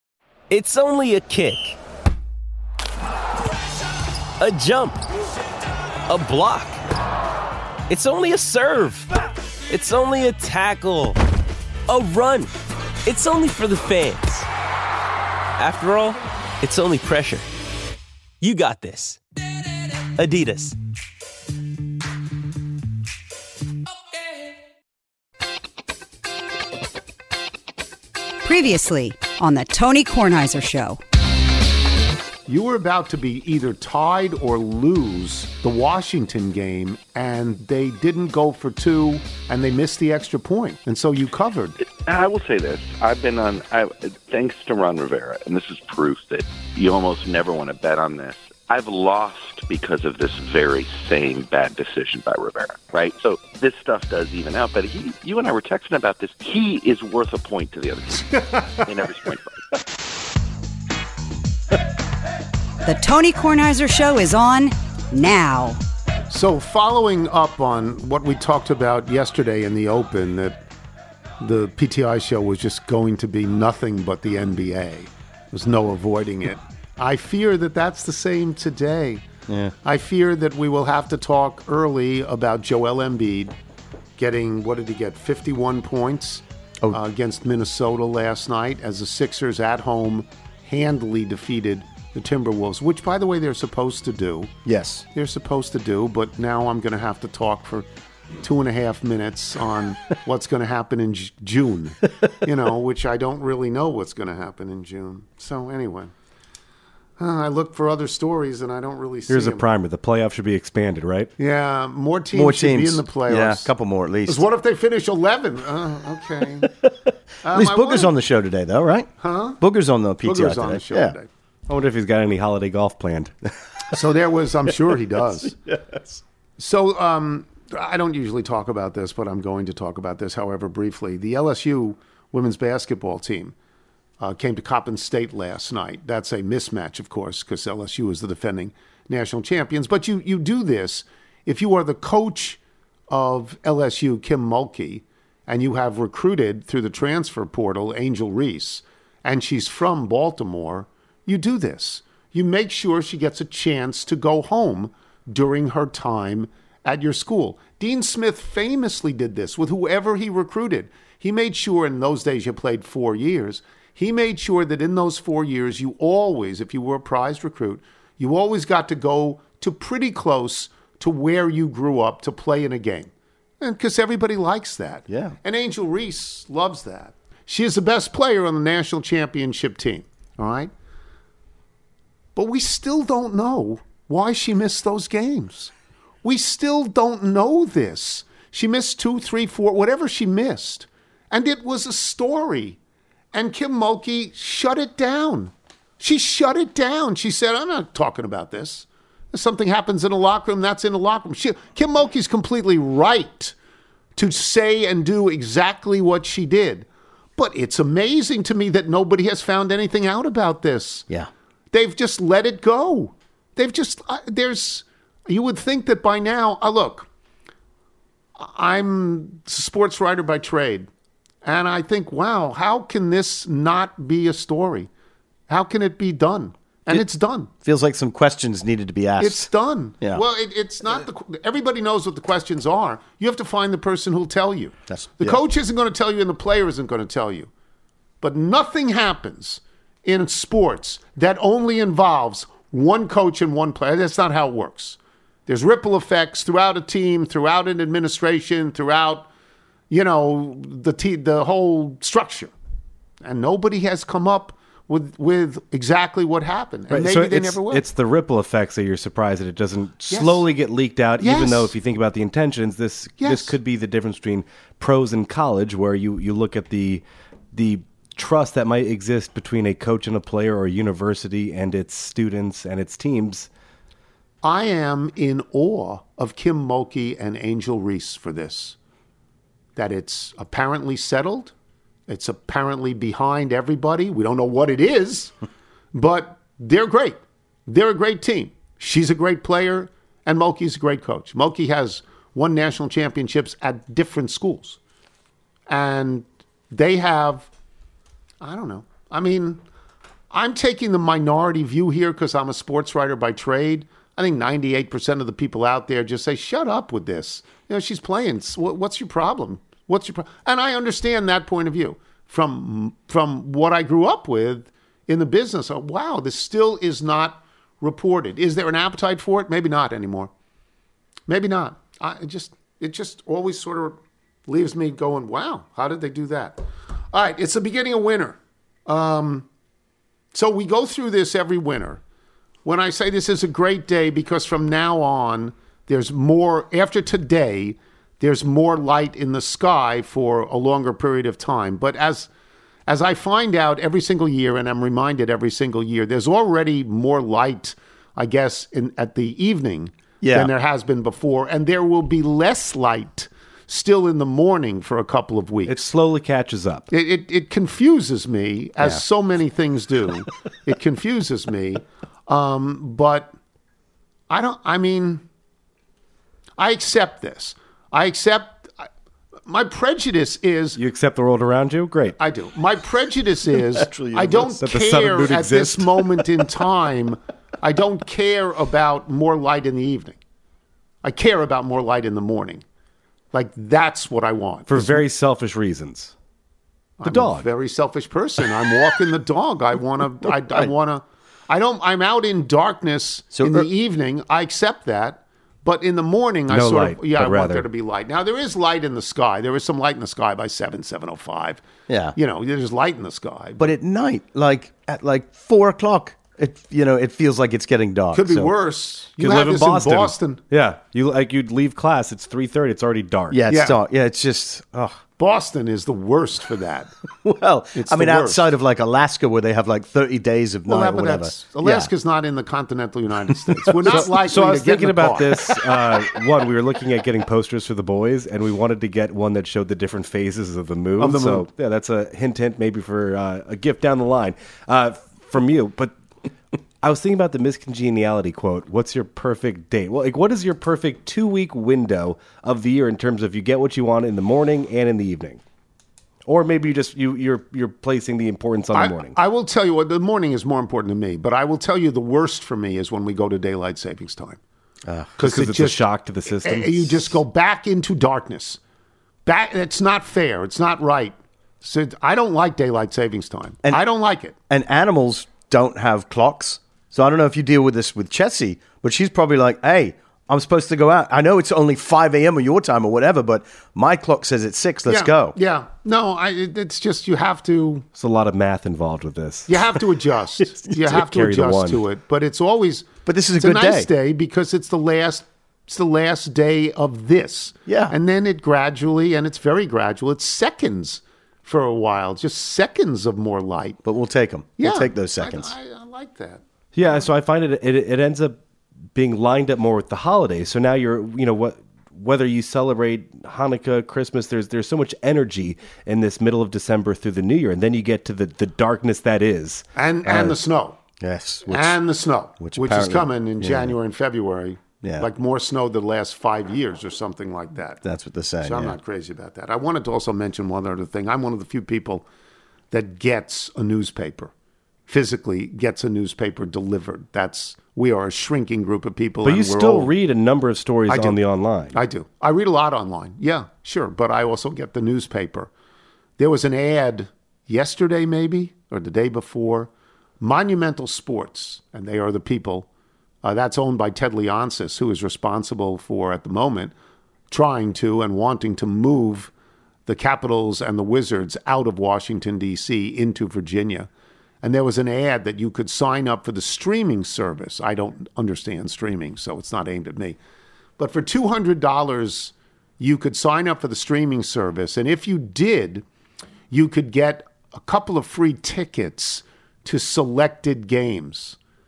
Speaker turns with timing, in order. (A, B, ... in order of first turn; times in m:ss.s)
0:00.5-0:01.8 A
0:04.4-0:05.0 A
0:06.1-0:06.8 A
0:07.9-0:09.1 A
0:09.7-0:11.2 A
0:11.9-0:12.5 A
0:13.0-0:14.5 A
0:15.6-0:17.5 A
0:18.4-0:19.2 A
0:20.1-0:20.8 A
0:28.4-0:31.0 B
0:32.5-0:41.8 C
0:41.8-0:59.6 D
1:02.8-1:05.8 B
1:06.3-1:10.6 C
1:11.4-1:19.2 C
1:19.5-1:19.7 E
1:19.8-1:23.5 C
1:24.2-1:34.5 C
1:34.6-1:35.0 E
1:35.1-1:37.8 C
1:38.4-1:46.1 C
1:47.2-1:49.7 C
1:49.3-1:51.3 F
1:51.4-1:53.7 C
1:52.3-1:54.4 E
1:54.2-1:56.7 C
1:57.4-1:58.1 C
1:57.4-2:01.1 E
1:59.2-1:59.6 C
2:00.2-2:01.3 C
2:01.7-2:03.3 F
2:03.9-2:05.5 C
2:05.6-2:06.2 E
2:06.6-2:13.5 C
2:14.2-3:00.7 C
2:55.1-2:55.3 E
3:02.4-3:05.7 C
3:06.2-3:12.8 C
3:13.3-3:23.5 C
3:24.2-3:31.1 C
3:31.7-3:37.1 C
3:38.4-3:40.9 C
3:41.4-3:44.9 C
3:45.5-3:47.5 C
3:47.6-3:49.5 E
3:49.2-3:57.5 C
3:54.9-3:55.4 E
3:58.2-4:09.3 C
4:09.9-4:12.5 C
4:13.2-4:17.8 C
4:16.9-4:33.5 F
4:20.1-4:20.4 C
4:21.2-4:21.7 C
4:23.2-4:23.6 C
4:34.4-4:38.8 C
4:39.8-4:41.5 C
4:42.1-4:45.3 C
4:45.9-4:54.8 C
4:55.7-4:57.5 C
4:58.4-4:59.6 C
5:00.3-5:20.3 C
5:21.3-5:29.5 C
5:30.3-5:32.0 C
5:32.6-5:42.3 C
5:42.9-5:55.8 C
5:50.2-5:50.5 E
5:55.7-5:56.9 F
5:56.9-6:03.3 C
6:04.3-6:05.2 C
6:06.6-6:08.9 C
6:09.5-6:10.8 C
6:10.8-6:12.2 F
6:12.2-6:20.2 C
6:13.7-6:14.6 E
6:14.6-6:16.2 F
6:21.0-6:22.6 C
6:23.3-6:25.0 C
6:24.7-6:26.1 F
6:27.0-6:41.6 C
6:27.0-6:27.5 F
6:33.3-6:33.7 E
6:36.5-6:37.7 F
6:41.9-6:42.2 E
6:42.1-6:43.7 C
6:43.6-6:48.5 E
6:48.1-6:50.4 C
6:49.2-6:53.4 F
6:53.3-6:55.0 E
6:53.5-6:53.8 C
6:55.2-6:56.9 C
6:57.2-7:01.9 E
6:57.7-6:58.4 C
7:00.7-7:05.4 C
7:03.5-7:04.0 E
7:03.8-7:15.9 F
7:11.0-7:11.4 C
7:16.8-7:25.4 F
7:26.2-7:29.2 F
7:28.7-7:34.4 C
7:34.8-7:35.2 E
7:35.2-7:38.6 C
7:35.2-7:37.2 F
7:39.2-7:44.4 C
7:44.5-7:55.4 E
7:54.9-7:57.8 C
7:57.9-7:59.6 F
7:59.5-8:13.8 C
8:00.9-8:01.8 F
8:03.0-8:03.9 E
8:07.6-8:07.9 E
8:13.8-8:15.5 E
8:14.6-8:17.0 C
8:16.7-8:18.4 F
8:18.9-8:29.6 F
8:29.7-8:30.8 C
8:30.1-8:30.3 E
8:31.0-8:31.8 E
8:31.5-8:37.8 C
8:32.4-8:33.8 E
8:34.8-8:35.1 E
8:37.8-8:38.8 E
8:38.4-8:42.0 C
8:42.7-8:44.3 C
8:44.9-8:49.9 C
8:49.2-8:51.8 F
8:50.9-8:51.2 C
8:51.7-8:55.5 C
8:56.2-9:02.7 C
9:03.2-9:06.7 C
9:07.3-9:09.3 C
9:09.8-9:13.9 C
9:14.4-9:20.2 C
9:20.8-9:25.8 C
9:26.5-9:31.4 C